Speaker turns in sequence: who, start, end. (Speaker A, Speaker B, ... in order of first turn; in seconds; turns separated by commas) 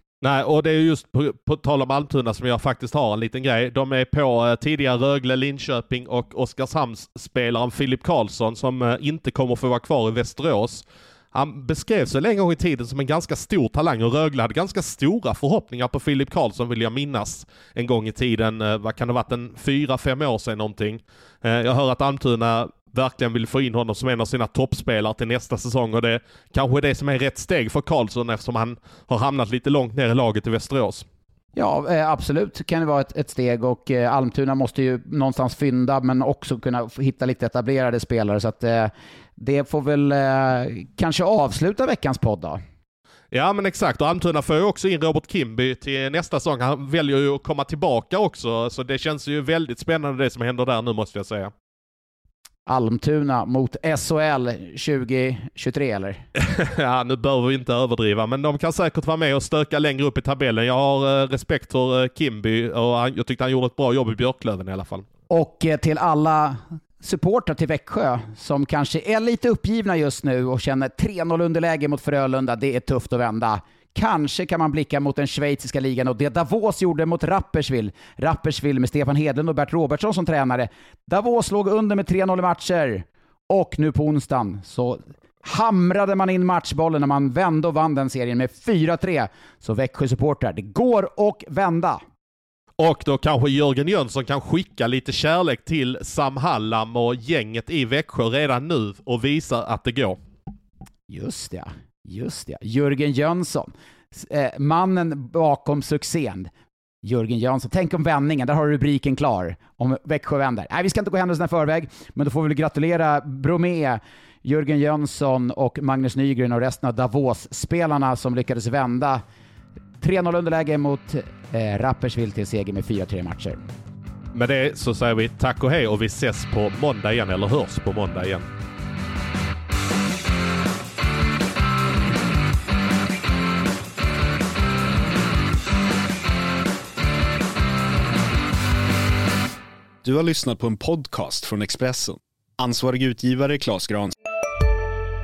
Speaker A: 0.2-31.1, Speaker B: 31.6-42.6, Speaker A: 43.3-51.5, Speaker B: 52.7-56.2, Speaker A: 56.4-65.0, Speaker B: 65.3-92.0, Speaker A: 92.8-100.2, Speaker B: 101.1-106.5, Speaker B: 107.0-119.2, Speaker B: 120.0-123.6, Speaker A: 124.3-128.4, Speaker C: 140.0-144.1